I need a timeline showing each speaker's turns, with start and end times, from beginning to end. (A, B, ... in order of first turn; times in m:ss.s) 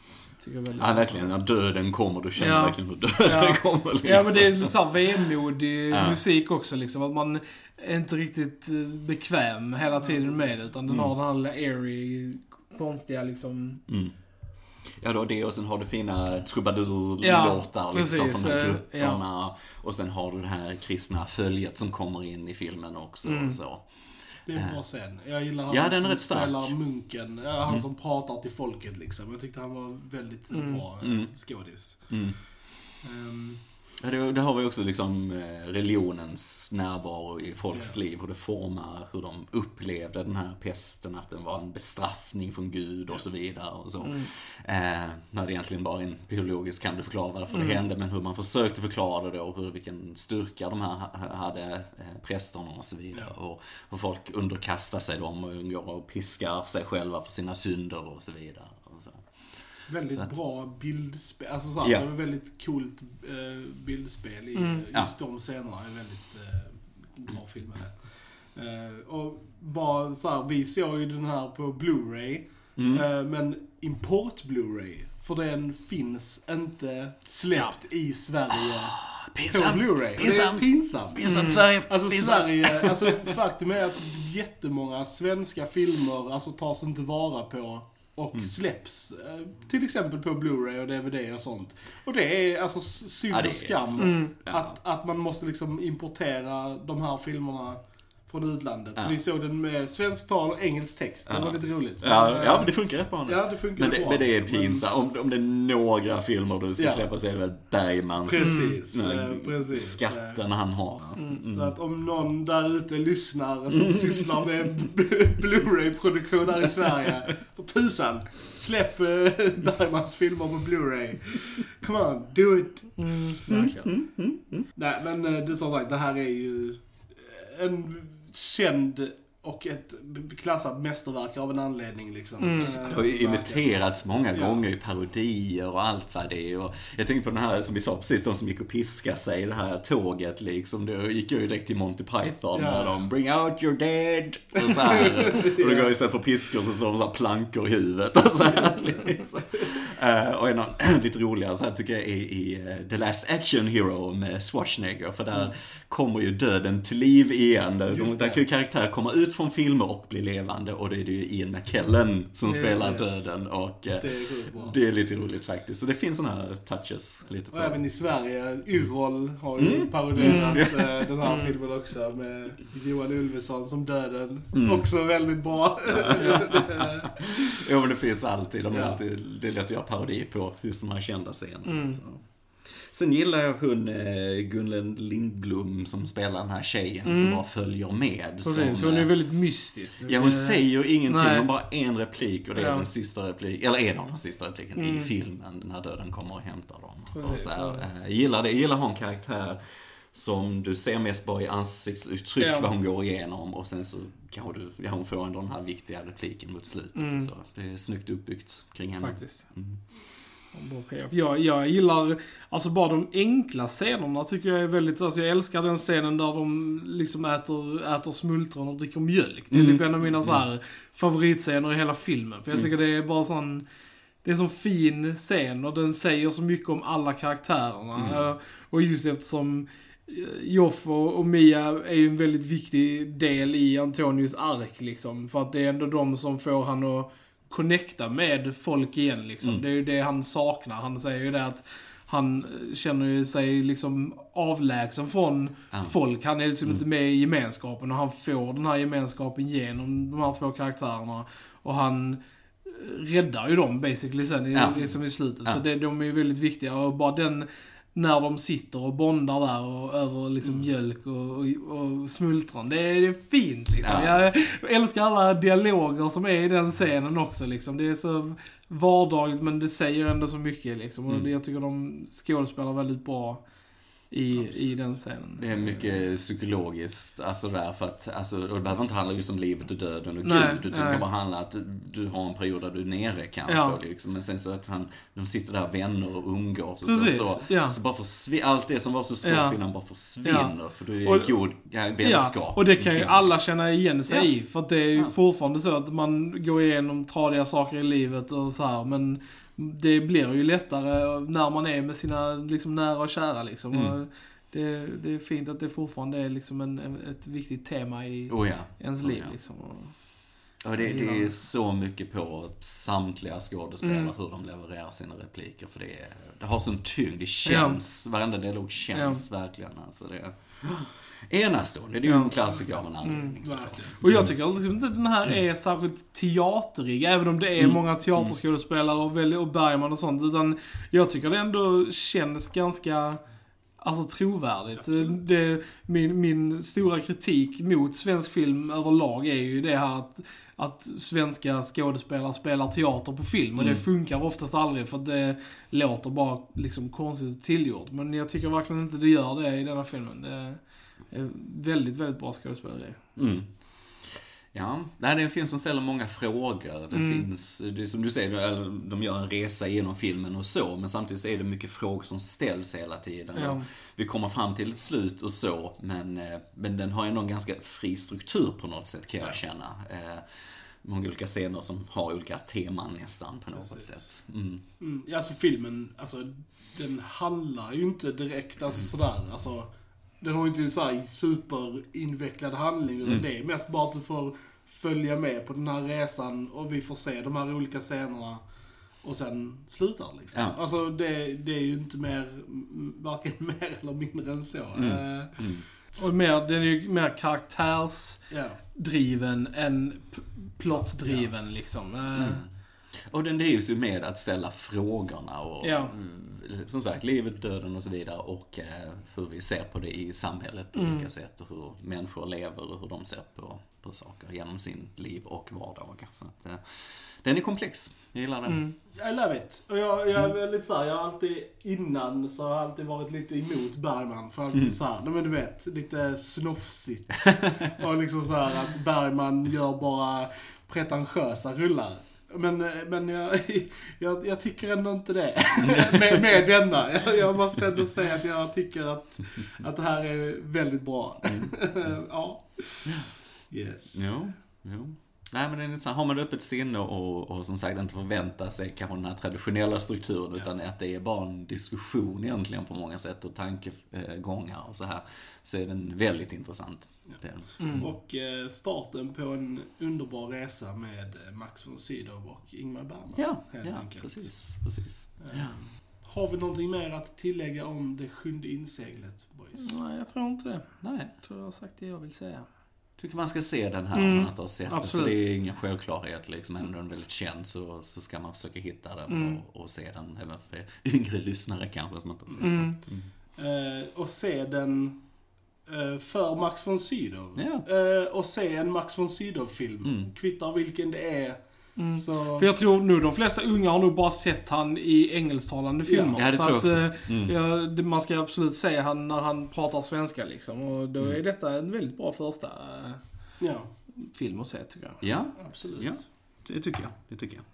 0:00.4-0:01.3 A
0:00.8-0:05.3 B
0:02.4-0:13.8 A
0:05.9-0:06.2 B
0:10.0-0:10.7 C
0:10.9-0:11.1 B
0:13.9-0:14.2 B
0:14.9-0:23.9 B
0:17.2-0:19.2 A
0:23.2-0:23.6 A
0:24.4-0:32.2 C
0:24.5-0:24.8 B
0:25.7-0:26.8 B
0:30.5-0:30.8 A
0:31.0-0:31.3 B
0:32.1-0:32.4 B
0:32.9-0:33.6 C
0:34.0-1:00.3 B
0:44.0-0:44.3 A
0:47.5-0:47.8 A
0:59.9-1:44.8 C
1:04.5-1:04.8 A
1:12.8-1:13.0 B
1:18.6-1:23.1 B
1:21.2-1:21.6 A
1:33.3-1:34.7 B
1:34.0-1:34.3 A
1:41.3-1:51.8 B
1:46.8-1:47.1 C
1:48.2-1:50.4 C
1:48.4-1:48.8 A
1:51.2-2:03.5 C
1:53.8-1:54.2 B
2:03.0-2:03.9 A
2:03.5-2:04.7 B
2:04.7-2:13.7 C
2:12.4-2:12.8 A
2:12.6-2:47.8 B
2:14.3-2:14.6 C
2:22.5-2:23.0 C
2:24.9-2:25.9 C
2:37.9-2:38.4 C
2:42.4-2:43.2 A
2:44.0-2:44.8 C
2:47.5-2:57.4 C
2:49.6-2:50.9 B
2:50.2-2:51.6 A
2:54.5-2:54.8 B
2:55.9-3:09.1 B
2:56.2-2:56.4 A
2:58.7-2:59.0 C
3:01.6-3:02.0 A
3:07.0-3:07.4 A
3:08.4-3:11.5 A
3:10.1-3:19.6 B
3:12.6-3:12.9 A
3:14.8-3:15.1 A
3:17.1-3:17.8 A
3:20.1-3:29.8 B
3:22.4-3:22.7 A
3:26.9-3:27.3 A
3:29.0-3:29.4 A
3:30.5-3:43.6 A
3:39.5-3:40.4 B
3:44.2-4:33.4 A
3:47.9-3:48.3 B
4:14.5-4:15.6 B
4:23.8-4:24.3 B
4:34.1-4:36.0 A
4:34.3-4:34.6 B
4:35.4-4:53.3 B
4:40.2-4:41.0 A
4:43.5-4:43.8 A
4:46.8-4:47.8 A
4:49.2-4:49.6 A
4:50.2-4:51.3 A
4:52.0-5:10.2 A
5:08.3-5:09.4 B
5:10.6-5:24.3 B
5:10.8-5:11.3 A
5:13.8-5:14.1 A
5:17.4-5:17.8 A
5:18.9-5:19.2 A
5:22.0-5:23.4 A
5:23.4-5:24.0 C
5:24.0-5:33.2 A
5:27.6-5:28.4 B
5:33.8-5:53.0 A
5:34.8-5:35.2 C
5:43.6-5:43.8 B
5:53.2-5:54.0 B
5:54.5-6:10.2 B
5:56.9-5:57.2 A
6:03.4-6:03.6 A
6:10.8-6:14.6 B
6:13.6-6:14.0 C
6:14.8-6:28.4 C
6:29.0-6:35.5 C
6:30.3-6:30.6 B
6:34.8-6:35.6 B
6:36.0-6:42.4 A
6:38.3-6:38.6 C
6:40.7-6:41.3 C
6:42.1-6:58.7 B
6:45.6-6:45.9 A
6:50.7-6:51.1 A
6:58.5-6:58.7 A
6:58.9-7:24.2 C
7:15.7-7:16.0 B
7:23.9-7:37.9 B
7:37.1-7:44.5 C
7:37.6-7:37.9 A
7:43.1-7:45.6 B
7:45.2-7:49.8 C
7:49.6-7:52.5 A
7:50.8-7:51.1 B
7:53.0-8:03.1 B
7:53.9-7:55.2 A
7:59.1-7:59.4 A
8:02.4-8:02.8 A
8:03.4-8:05.1 C
8:05.6-8:12.5 C
8:07.4-8:07.6 B
8:09.8-8:10.1 B
8:11.8-8:23.4 A
8:15.8-8:16.2 C
8:16.1-8:17.4 B
8:23.4-8:23.7 C
8:24.0-8:25.4 A
8:25.0-8:27.4 B
8:25.4-8:26.0 C